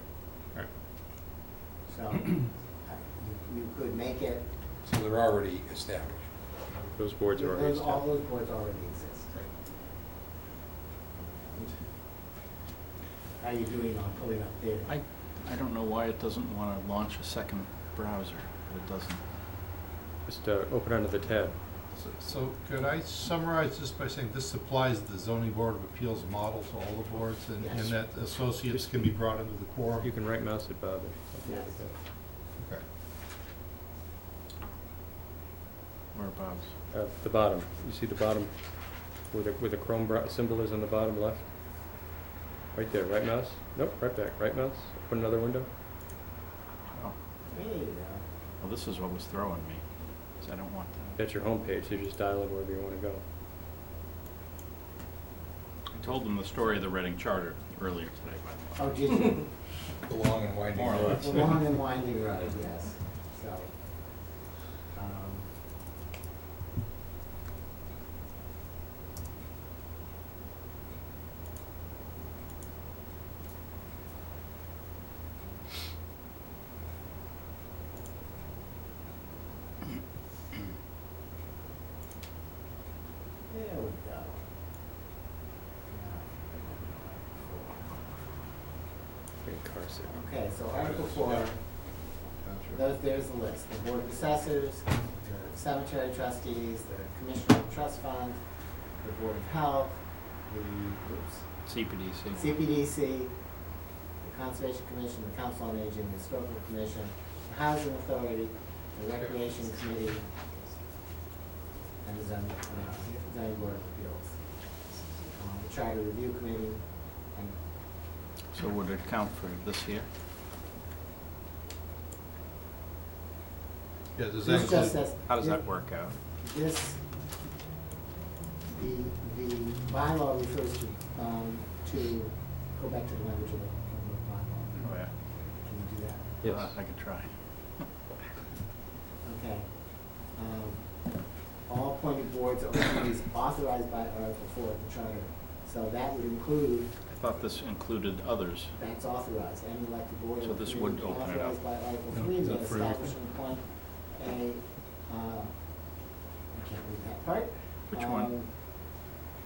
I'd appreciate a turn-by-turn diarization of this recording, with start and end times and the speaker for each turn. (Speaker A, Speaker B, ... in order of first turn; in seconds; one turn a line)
Speaker A: 1.9-4.5
Speaker B: 4.8-6.3
Speaker C: 7.0-8.0
Speaker A: 7.3-9.3
Speaker A: 11.2-11.8
Speaker A: 13.4-14.9
Speaker D: 14.9-19.2
Speaker C: 20.2-21.6
Speaker E: 21.9-30.1
Speaker A: 27.6-27.9
Speaker C: 28.7-29.1
Speaker C: 30.0-31.9
Speaker A: 31.4-31.8
Speaker E: 32.6-32.8
Speaker D: 36.1-36.7
Speaker C: 36.9-41.5
Speaker C: 42.7-45.7
Speaker A: 47.5-48.2
Speaker D: 48.6-49.8
Speaker D: 50.4-51.2
Speaker C: 51.2-53.2
Speaker D: 55.9-58.8
Speaker A: 58.8-59.5
Speaker B: 60.0-61.5
Speaker D: 60.7-61.6
Speaker A: 61.0-64.3
Speaker A: 64.9-65.5
Speaker A: 83.5-84.5
Speaker A: 85.9-88.0
Speaker C: 89.4-90.3
Speaker A: 90.0-91.9
Speaker B: 90.7-91.6
Speaker B: 92.4-92.8
Speaker A: 92.7-101.5
Speaker D: 101.6-102.4
Speaker A: 102.3-103.5
Speaker A: 104.2-110.2
Speaker A: 112.0-114.6
Speaker A: 115.3-117.6
Speaker D: 118.5-120.1
Speaker E: 124.1-125.0
Speaker A: 124.4-127.0
Speaker D: 125.2-126.2
Speaker A: 128.7-136.4
Speaker D: 134.8-135.1
Speaker C: 136.4-136.7
Speaker D: 136.4-137.3
Speaker A: 139.2-147.0
Speaker D: 147.1-148.7
Speaker A: 148.7-155.8
Speaker D: 150.4-151.6
Speaker E: 152.3-153.0
Speaker A: 156.5-158.5
Speaker D: 157.9-158.3